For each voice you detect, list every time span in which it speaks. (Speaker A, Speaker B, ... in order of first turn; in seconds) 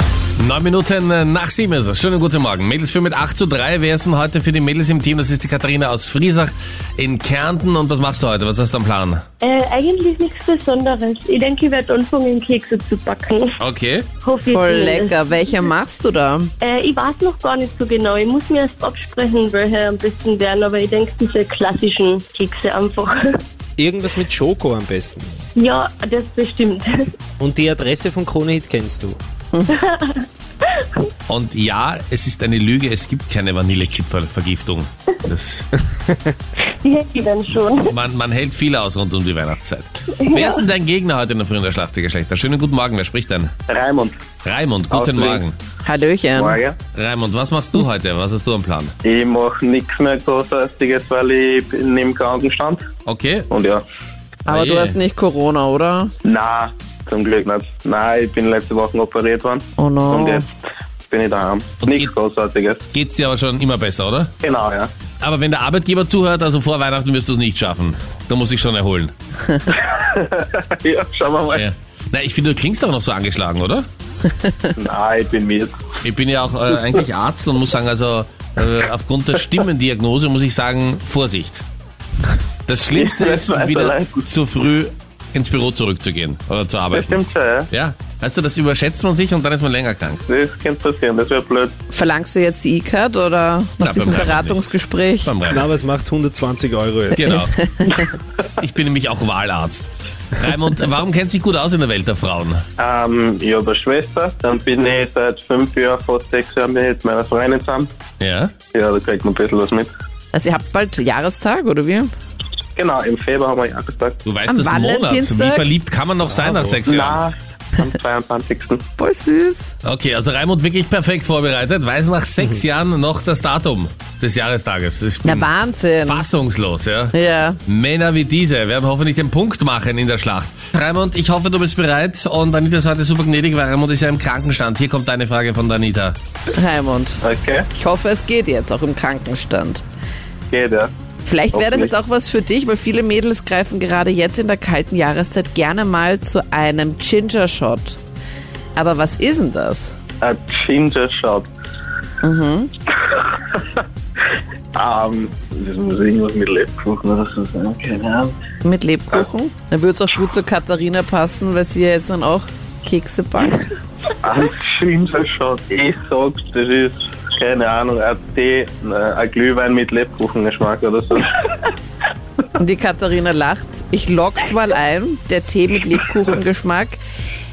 Speaker A: 0.4-9.2, 13.6-14.1, 31.3-35.7, 37.9-43.5, 44.4-45.5, 46.9-48.9, 53.0-53.5, 54.5-55.0, 61.8-62.1, 62.9-64.3, 65.2-69.1, 71.5-73.8, 76.0-81.6, 82.7-90.2, 93.8-94.7, 95.2-95.7, 97.1-97.9, 98.6-102.6, 108.2-108.5, 114.2-117.2, 119.8-125.5, 126.0-127.1, 127.7-136.2
Speaker B: 9.4-13.6, 14.2-15.2, 16.6-23.4, 25.6-27.1, 29.7-30.2, 36.8-37.9
Speaker C: 14.5-16.5, 45.8-46.6, 54.5-56.1, 59.8-60.4, 91.9-95.3, 97.2-98.0, 110.3-112.1, 114.5-115.7, 119.0-119.7, 125.2-126.3, 127.1-127.6, 136.5-137.2, 137.7-139.8, 141.2-148.0, 148.8-149.9, 152.2-152.7, 158.6-163.7, 172.6-177.0
Speaker D: 23.8-25.3, 27.4-29.2, 95.5-97.3, 116.3-116.8
Speaker E: 43.7-44.2, 44.9-45.4, 46.4-46.8, 49.0-52.8, 53.5-53.8, 56.2-60.5, 61.1-62.8, 64.4-64.9, 69.7-71.7, 74.8-75.7, 82.9-84.3, 86.9-87.7, 90.3-91.7, 102.8-107.9, 108.7-109.9, 112.8-114.2, 116.8-118.8, 137.2-137.7, 140.5-140.9, 141.5-141.9, 150.2-151.5, 153.1-153.8, 154.7-158.4, 164.2-171.7